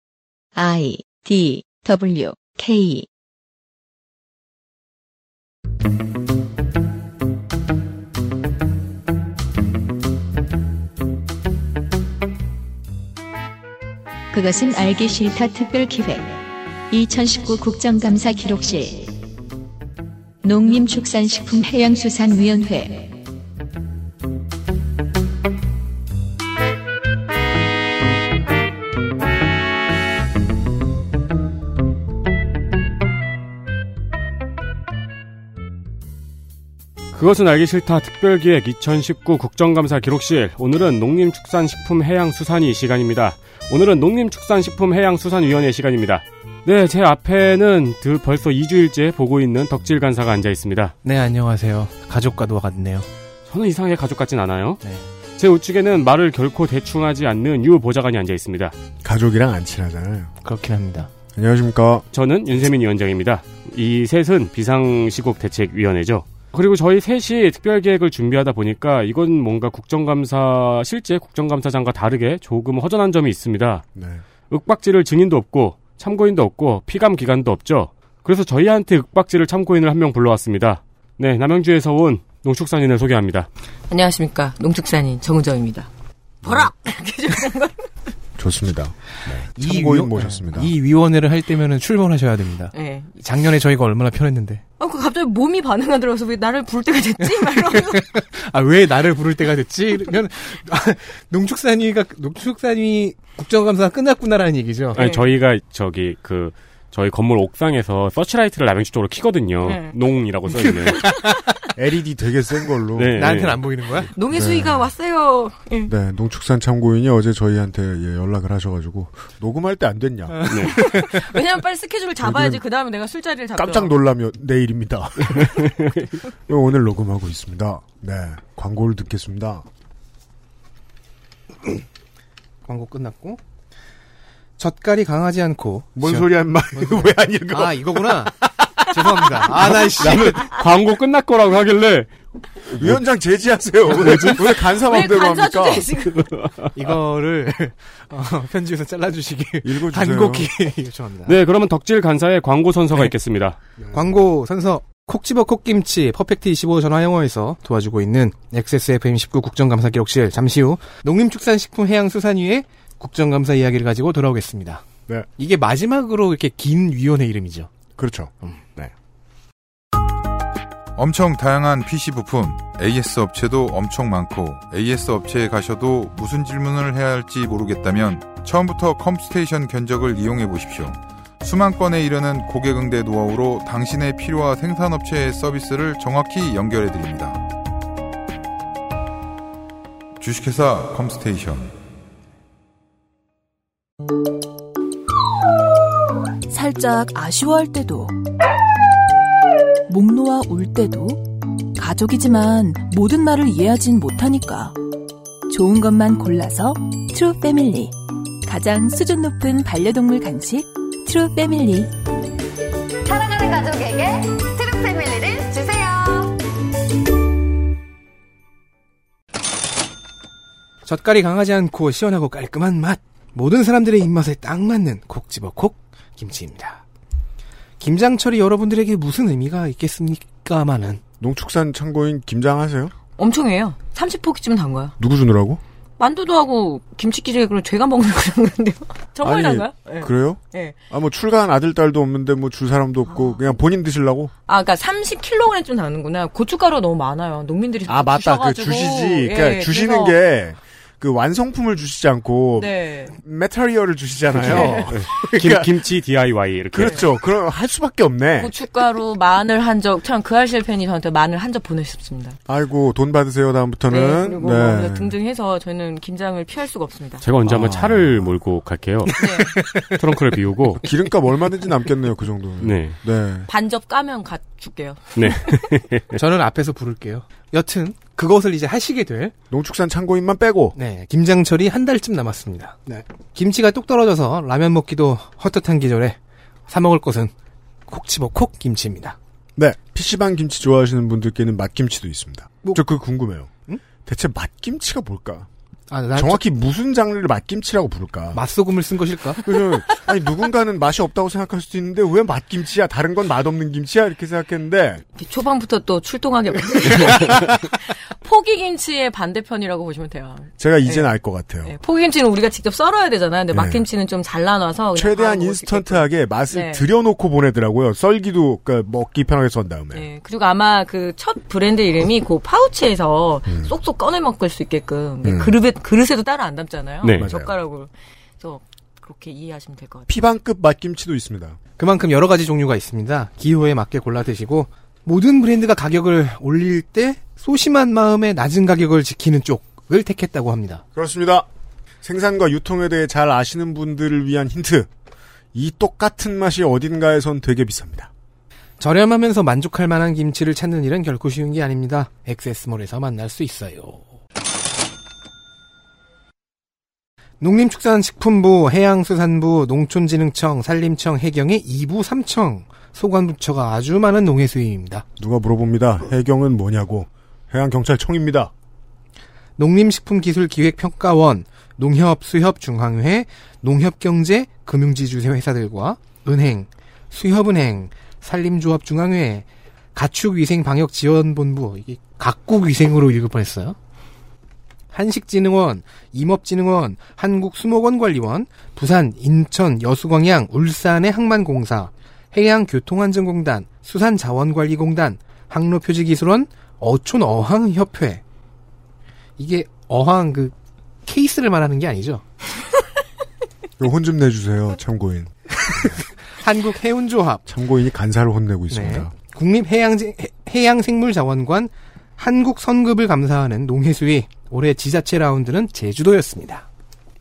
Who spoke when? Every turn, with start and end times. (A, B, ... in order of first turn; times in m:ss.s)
0:00.6-0:03.1 A
0:14.3-0:16.4 A
0:16.9-0:19.1 A
0:20.4-0:23.1 A
0:37.1-0:51.0 B
0:51.0-0:53.1 C
0:53.5-0:54.8 B
0:55.4-0:58.7 B
0:59.0-1:00.3 D
1:00.4-1:01.1 C
1:01.4-1:02.0 D
1:02.1-1:13.8 B
1:14.0-1:14.2 D
1:14.5-1:23.5 B
1:23.9-1:25.9 E
1:26.4-1:27.9 E
1:26.4-1:26.7 D
1:28.4-1:30.7 D
1:29.6-1:34.6 C
1:32.7-1:33.1 E
1:34.8-1:38.1 E
1:37.2-1:45.0 C
1:44.9-1:45.3 E
1:44.9-1:51.1 B
1:49.6-1:50.0 E
1:50.7-1:51.4 E
1:51.8-1:53.3 D
1:53.0-1:53.6 B
1:53.1-1:54.1 C
1:54.1-1:55.9 E
1:54.3-1:54.8 D
1:55.9-2:00.7 D
2:00.3-2:01.2 C
2:00.5-2:00.8 B
2:00.7-2:04.0 E
2:02.2-2:02.6 D
2:03.6-2:05.8 D
2:05.3-2:06.0 B
2:06.5-2:09.7 D
2:12.7-2:13.4 C
2:14.6-2:18.4 C
2:16.0-2:20.2 D
2:18.9-2:20.5 C
2:20.0-2:22.1 B
2:22.7-2:23.0 B
2:22.7-2:25.9 D
2:23.9-2:24.3 C
2:24.0-2:24.4 B
2:24.6-2:26.2 E
2:26.8-2:31.4 C
2:29.6-2:30.5 D
2:31.3-2:33.6 B
2:33.9-2:44.8 C
2:45.4-2:47.7 C
2:48.0-2:48.9 D
2:51.0-3:07.4 F
3:10.2-3:11.8 F
3:16.5-3:18.2 G
3:19.9-3:24.8 G
3:25.5-3:32.0 G
3:33.0-3:36.4 H
3:40.8-3:46.8 C
3:47.8-3:51.0 C
3:51.2-3:52.9 D
3:53.2-3:55.0 E
3:55.0-3:55.6 D
3:56.0-4:00.8 E
3:59.2-4:04.3 D
4:04.5-4:10.2 E
4:07.9-4:15.7 D
4:12.6-4:13.2 E
4:14.4-4:14.9 E
4:14.4-4:17.0 B
4:16.7-4:18.5 D
4:18.4-4:22.4 E
4:22.5-4:25.1 D
4:23.9-4:27.2 E
4:27.2-4:30.8 B
4:27.4-4:28.4 D
4:29.2-4:29.6 E
4:29.3-4:30.0 C
4:30.8-4:33.5 D
4:32.6-4:33.0 B
4:33.5-4:35.6 E
4:35.2-4:36.2 B
4:36.1-4:39.3 C
4:39.5-4:40.8 D
4:40.8-4:46.2 C
4:46.7-4:47.3 C
4:47.9-4:49.2 C
4:49.6-4:53.5 D
4:54.0-4:55.5 D
4:55.9-4:56.4 C
4:56.1-4:58.4 D
4:58.3-4:59.6 C
4:59.4-5:05.0 D
5:05.2-5:11.1 E
5:07.1-5:07.4 D
5:10.6-5:11.7 D
5:11.6-5:16.8 E
5:13.5-5:13.8 D
5:15.0-5:20.0 D
5:19.9-5:30.1 E
5:25.2-5:25.6 D
5:27.2-5:27.5 D
5:30.1-5:31.6 D
5:31.8-5:40.8 C
5:41.0-5:41.5 D
5:42.0-5:44.9 D
5:45.5-5:48.1 D
5:48.8-5:54.0 C
5:57.4-6:05.0 C
6:05.2-6:08.5 D
6:09.6-6:23.8 C
6:24.9-6:38.2 C
6:39.4-6:40.5 C
6:41.1-6:42.2 C
6:43.8-6:46.0 D
6:45.8-6:47.4 C
6:47.5-6:49.1 D
6:48.7-6:56.7 C